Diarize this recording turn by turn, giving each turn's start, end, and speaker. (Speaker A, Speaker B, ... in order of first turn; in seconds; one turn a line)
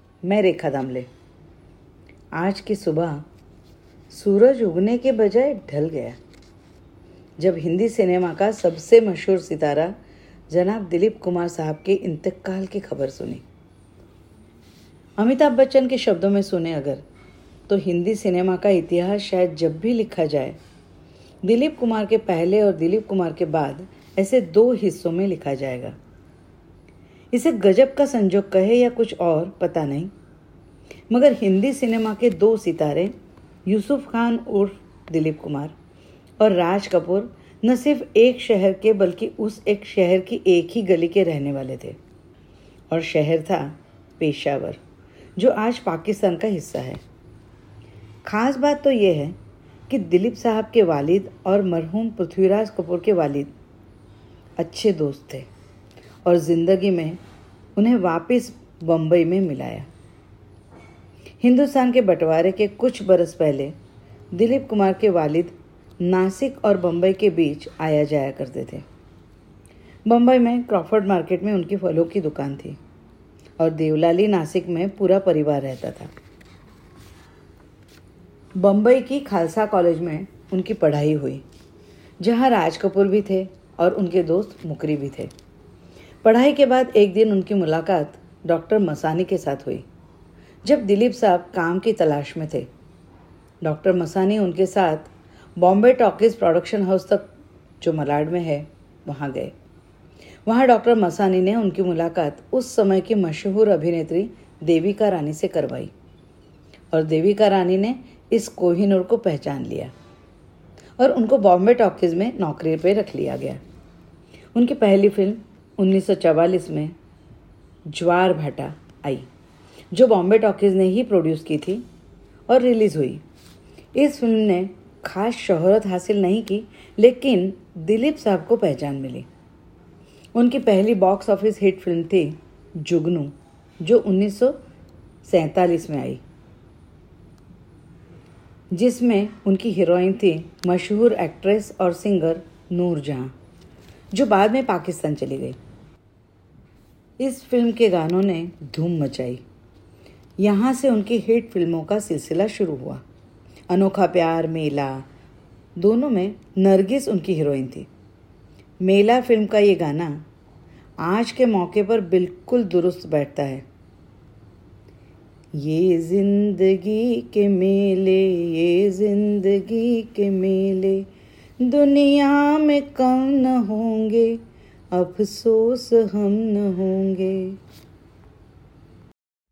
Speaker A: 0.2-1.1
Speaker A: 2.4-3.2
Speaker A: 4.1-6.2
Speaker A: 7.4-9.9
Speaker A: 10.5-13.4
Speaker A: 15.2-17.0
Speaker A: 17.7-20.6
Speaker A: 21.4-26.0
Speaker A: 27.3-30.1
Speaker A: 31.1-33.1
Speaker A: 33.7-35.8
Speaker A: 36.4-42.0
Speaker A: 42.9-44.8
Speaker A: 45.4-47.0
Speaker A: 48.3-49.4
Speaker A: 49.9-53.5
Speaker A: 54.6-55.5
Speaker A: 56.2-57.2
Speaker A: 57.8-59.9
Speaker A: 61.4-63.8
Speaker A: 64.3-68.9
Speaker A: 70.1-72.8
Speaker A: 73.6-76.1
Speaker A: 78.6-81.4
Speaker A: 82.2-85.3
Speaker A: 86.2-89.8
Speaker A: 90.6-92.7
Speaker A: 93.6-97.3
Speaker A: 97.8-99.5
Speaker A: 100.5-105.9
Speaker A: 106.9-109.9
Speaker A: 111.0-113.6
Speaker A: 114.5-116.9
Speaker A: 117.9-119.3
Speaker A: 119.9-121.8
Speaker A: 122.5-123.2
Speaker A: 124.0-129.3
Speaker A: 130.3-134.6
Speaker A: 135.3-136.2
Speaker A: 138.7-143.3
Speaker A: 144.1-145.6
Speaker A: 147.2-149.4
Speaker A: 150.4-153.0
Speaker A: 153.7-155.1
Speaker A: 155.8-157.9
Speaker A: 158.8-160.2
Speaker A: 161.0-163.6
Speaker A: 165.6-171.1
Speaker A: 171.6-174.4
Speaker A: 174.9-177.6